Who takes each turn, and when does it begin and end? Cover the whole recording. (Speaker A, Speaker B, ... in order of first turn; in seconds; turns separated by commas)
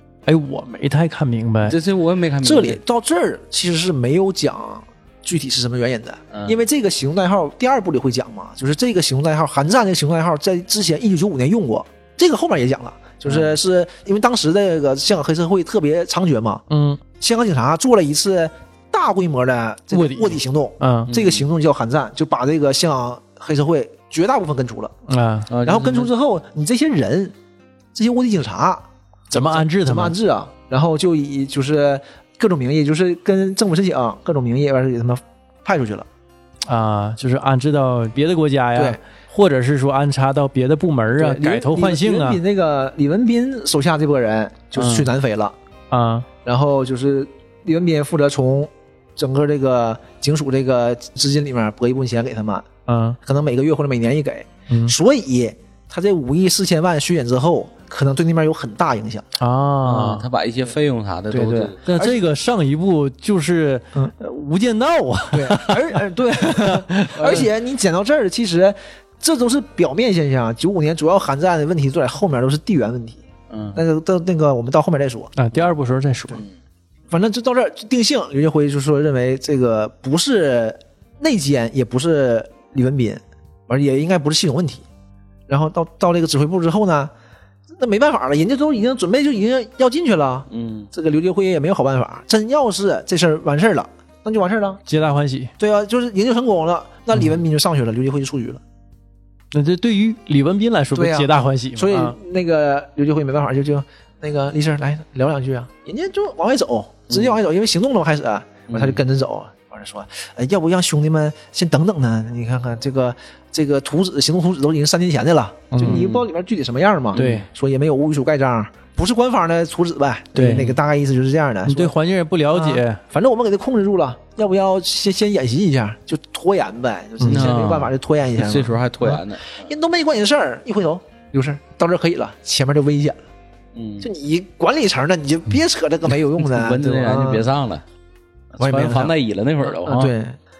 Speaker A: 0.3-1.8, Speaker B: 1.6-2.8, Speaker C: 2.4-16.6, Speaker A: 16.7-17.0, Speaker C: 17.2-24.9, Speaker A: 19.9-21.1, Speaker B: 21.1-21.4, Speaker A: 25.1-25.5, Speaker B: 25.5-26.1, Speaker C: 25.6-27.3, Speaker C: 27.9-36.1, Speaker A: 29.3-30.1, Speaker A: 36.7-42.4, Speaker C: 38.7-39.0, Speaker C: 41.2-45.5, Speaker A: 44.8-45.1, Speaker A: 45.9-46.3, Speaker C: 46.4-52.7, Speaker A: 52.9-53.2, Speaker C: 53.2-59.3, Speaker A: 54.7-55.0, Speaker A: 59.4-60.2, Speaker B: 59.8-61.8, Speaker C: 61.3-62.2, Speaker A: 61.9-67.5, Speaker C: 65.3-73.2, Speaker B: 73.5-73.8, Speaker C: 73.7-75.3, Speaker A: 75.3-76.4, Speaker C: 77.1-84.8, Speaker C: 85.5-87.1, Speaker C: 87.8-94.8, Speaker B: 90.5-90.9, Speaker A: 94.8-95.5, Speaker C: 95.6-98.6, Speaker A: 99.5-102.2, Speaker C: 100.9-121.9, Speaker B: 107.1-107.4, Speaker B: 108.7-109.0, Speaker A: 115.7-116.0, Speaker B: 115.8-116.2, Speaker B: 117.1-117.5, Speaker A: 117.1-117.5, Speaker A: 120.3-120.7, Speaker B: 120.5-120.8, Speaker A: 121.6-123.0, Speaker C: 122.5-133.2, Speaker A: 127.2-127.7, Speaker B: 127.2-129.6, Speaker B: 133.7-134.1, Speaker C: 134.0-137.4, Speaker B: 136.4-137.8, Speaker B: 138.5-140.1, Speaker C: 138.6-139.2, Speaker C: 139.8-140.4